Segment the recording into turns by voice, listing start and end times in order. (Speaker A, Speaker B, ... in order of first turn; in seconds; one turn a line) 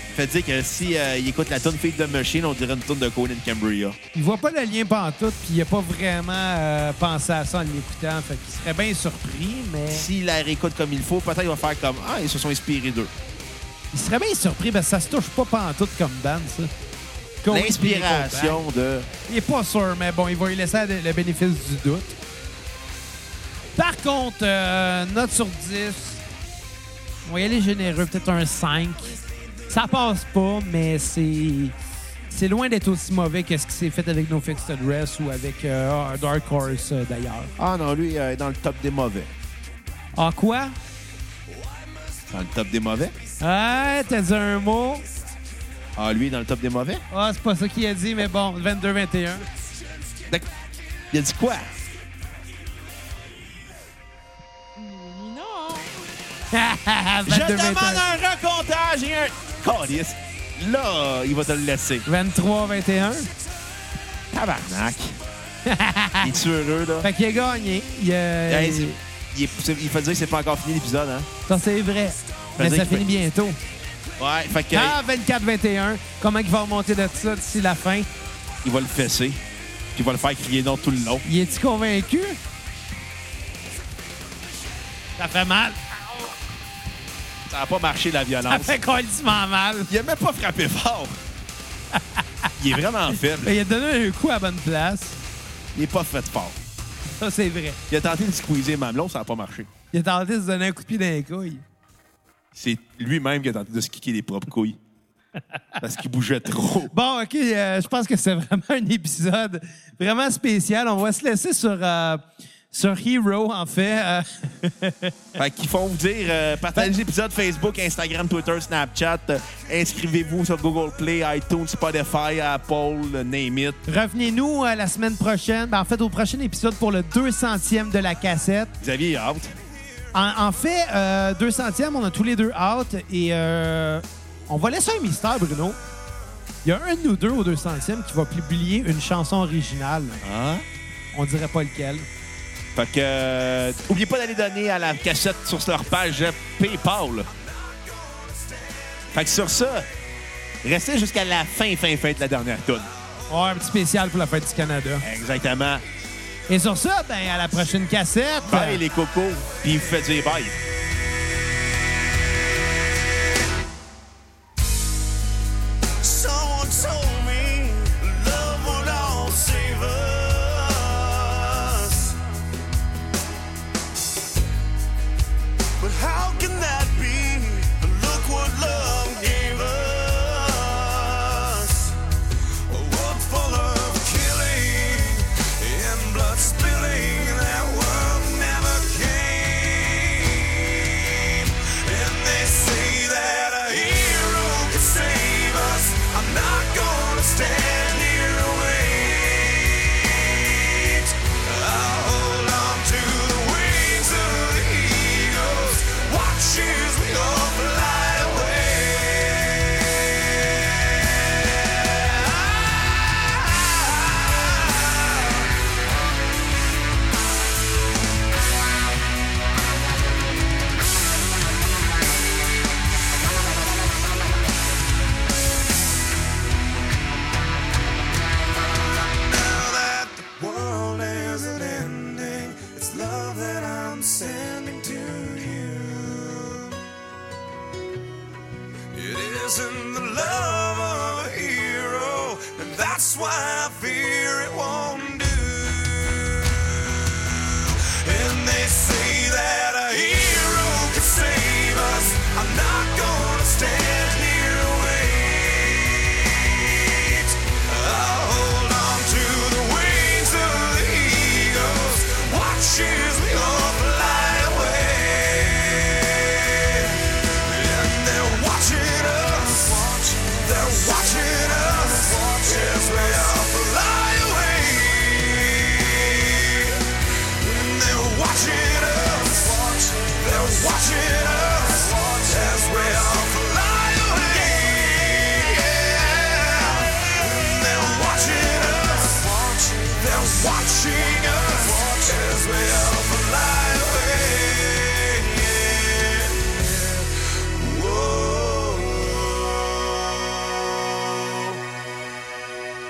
Speaker A: 0.1-4.0
Speaker B: 4.1-10.1
Speaker A: 9.9-13.1
Speaker B: 13.9-16.7
Speaker B: 17.4-18.6
Speaker A: 17.5-19.1
Speaker B: 19.3-22.1
Speaker B: 23.8-26.2
Speaker B: 27.2-31.7
Speaker B: 32.3-37.5
Speaker A: 37.6-39.3
Speaker B: 40.1-40.8
Speaker A: 42.3-43.1
Speaker B: 43.4-45.0
Speaker A: 46.0-47.0
Speaker B: 47.1-49.5
Speaker A: 51.1-51.7
Speaker C: 54.8-56.0
Speaker B: 56.5-58.0
Speaker A: 57.2-62.0
Speaker B: 62.0-63.3
Speaker A: 64.3-65.2
Speaker B: 65.6-66.3
Speaker A: 66.2-67.1
Speaker B: 67.0-69.0
Speaker A: 68.5-71.3
Speaker B: 71.5-73.6
Speaker A: 72.6-73.1
Speaker A: 74.2-75.0
Speaker B: 74.7-78.1
Speaker A: 78.6-79.4
Speaker A: 79.9-81.2
Speaker B: 81.2-82.4
Speaker B: 85.2-85.9
Speaker A: 87.5-88.8
Speaker B: 88.5-89.9
Speaker A: 89.9-91.2
Speaker B: 91.9-92.5
Speaker A: 92.6-93.5
Speaker B: 93.4-95.2
Speaker A: 95.7-96.6
Speaker B: 97.2-97.8
Speaker A: 97.9-99.7
Speaker B: 99.9-101.6
Speaker A: 102.5-104.8
Speaker A: 105.8-106.9
Speaker B: 106.9-115.1
Speaker A: 115.3-123.8
Speaker B: 123.8-128.7
Speaker A: 128.8-129.5
Speaker B: 130.1-135.8
Speaker B: 136.6-140.2
Speaker A: 140.2-140.6
Speaker B: 141.1-142.1
Speaker A: 142.7-147.3
Speaker A: 149.1-149.9
Speaker A: 150.6-152.9
Speaker B: 153.3-155.0
Speaker A: 155.0-155.8
Speaker B: 156.5-158.8
Speaker A: 158.5-160.6
Speaker C: 166.0-172.2
Speaker C: 175.8-181.9
Speaker C: 182.7-210.6
Speaker C: 212.0-213.4
Speaker C: 229.2-236.8
Speaker C: 238.9-246.3
Speaker C: 247.8-299.4